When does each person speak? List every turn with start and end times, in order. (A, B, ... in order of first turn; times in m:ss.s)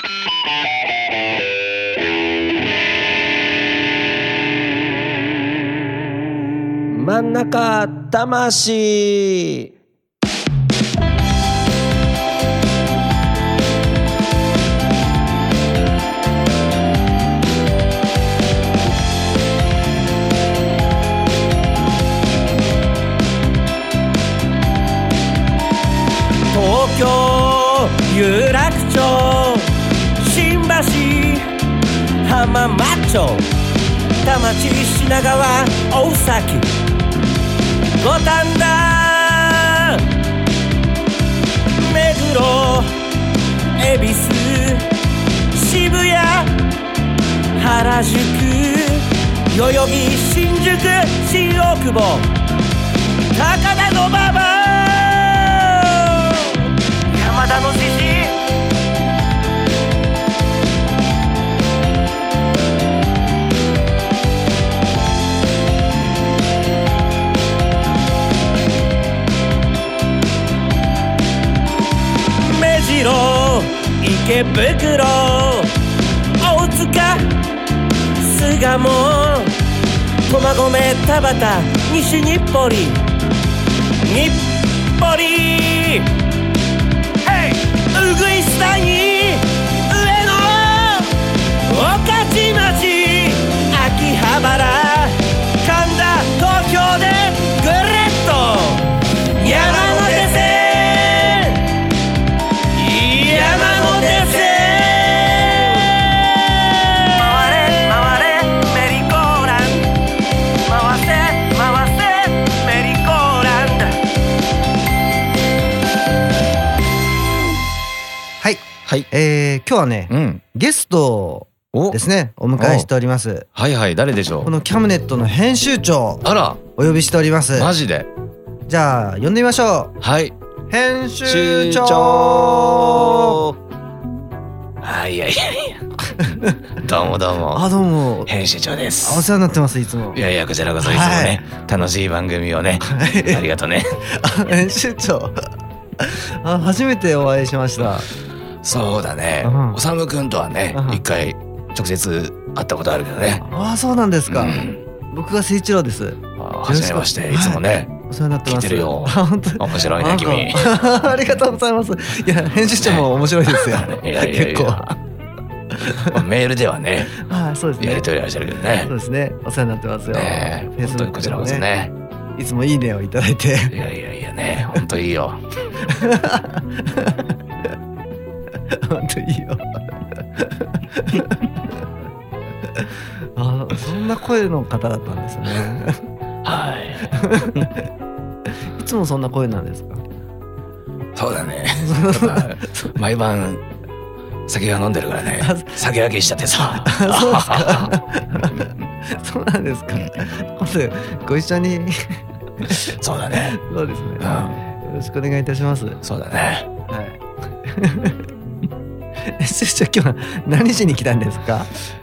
0:06.9-0:09.7 A
0:26.5-0:31.5 B
0:32.2-0:33.4 B
0:34.2-0:36.7 B
0:38.0-0:40.0 B
0:41.8-0:42.9 B
0:43.8-0:44.9 B
0:45.5-0:46.5 B
0:47.6-0:52.3 B
0:53.3-0:56.6 B
0:57.1-0:58.4 B
1:12.4-1:15.7 B
1:16.4-1:17.3 B
1:18.2-1:19.5 B
1:20.2-1:23.0 B
1:24.0-1:26.1 B
1:27.2-1:41.7 B
1:42.7-1:46.3 B
1:43.4-1:44.0 A
1:46.9-1:49.9 B
1:50.6-1:54.0 B
1:58.4-2:03.5 C
2:00.1-2:00.4 A
2:01.7-2:02.0 A
2:02.6-2:02.9 A
2:03.5-2:04.5 A
2:04.4-2:07.7 C
2:06.2-2:06.6 A
2:07.6-2:08.1 A
2:08.7-2:10.0 C
2:10.0-2:10.3 A
2:10.7-2:13.4 C
2:11.2-2:13.6 A
2:14.8-2:15.9 A
2:16.1-2:16.6 C
2:16.8-2:17.7 A
2:17.5-2:18.3 C
2:18.2-2:19.3 A
2:19.0-2:20.2 C
2:20.1-2:24.0 A
2:20.8-2:21.4 C
2:22.8-2:23.4 C
2:24.0-2:28.1 C
2:28.6-2:33.4 A
2:29.4-2:29.8 C
2:30.7-2:31.0 C
2:33.3-2:44.9 C
2:34.3-2:34.8 A
2:36.4-2:37.9 A
2:38.4-2:40.8 A
2:42.8-2:45.0 A
2:45.8-2:46.2 C
2:45.8-2:47.2 A
2:47.2-2:48.1 C
2:47.8-2:48.9 A
2:48.8-2:51.7 C
2:50.1-2:51.9 A
2:52.4-2:53.8 C
2:53.7-2:55.4 A
2:55.8-2:57.4 C
2:58.7-3:01.7 C
3:02.6-3:06.1 C
3:06.4-3:07.7 A
3:07.1-3:07.9 C
3:08.5-3:10.0 C
3:11.1-3:13.6 A
3:11.7-3:13.0 C
3:14.5-3:17.9 A
3:15.4-3:15.8 C
3:16.7-3:26.0 C
3:22.7-3:23.6 A
3:24.2-3:24.6 A
3:26.0-3:26.7 A
3:26.9-3:28.2 C
3:29.2-3:31.7 C